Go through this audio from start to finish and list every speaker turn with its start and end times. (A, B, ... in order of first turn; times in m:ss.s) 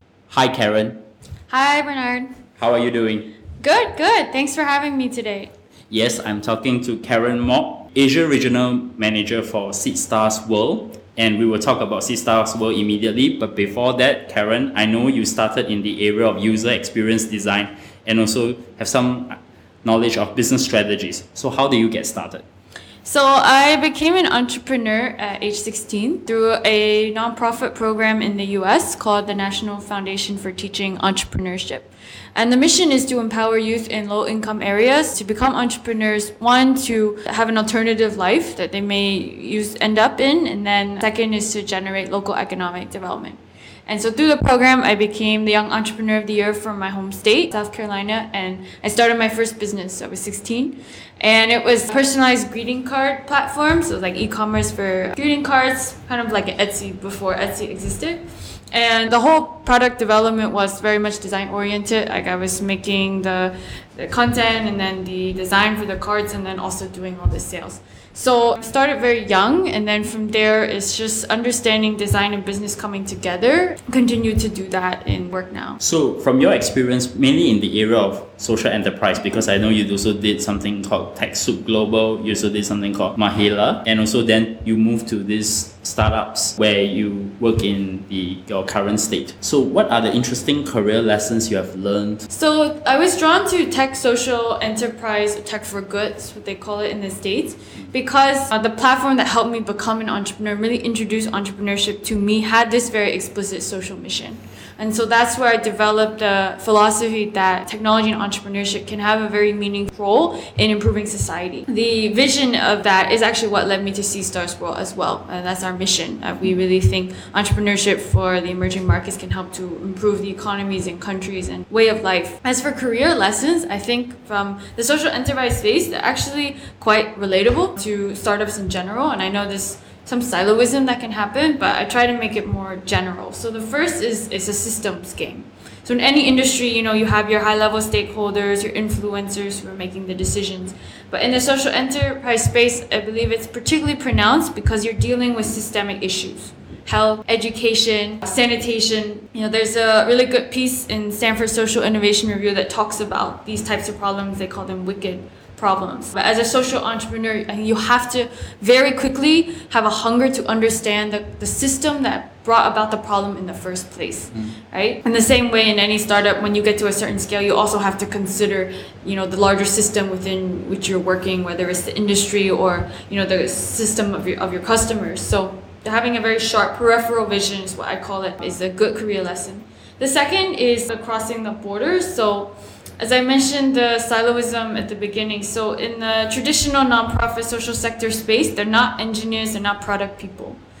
0:00.3-0:01.0 A
0:01.5-0:02.4 B
0:02.6-0:03.3 A
0:03.6-0:05.5 B
0:05.9-0:22.4 A
0:23.0-1:15.8 B
1:15.8-1:32.3 A
1:32.3-3:10.6 B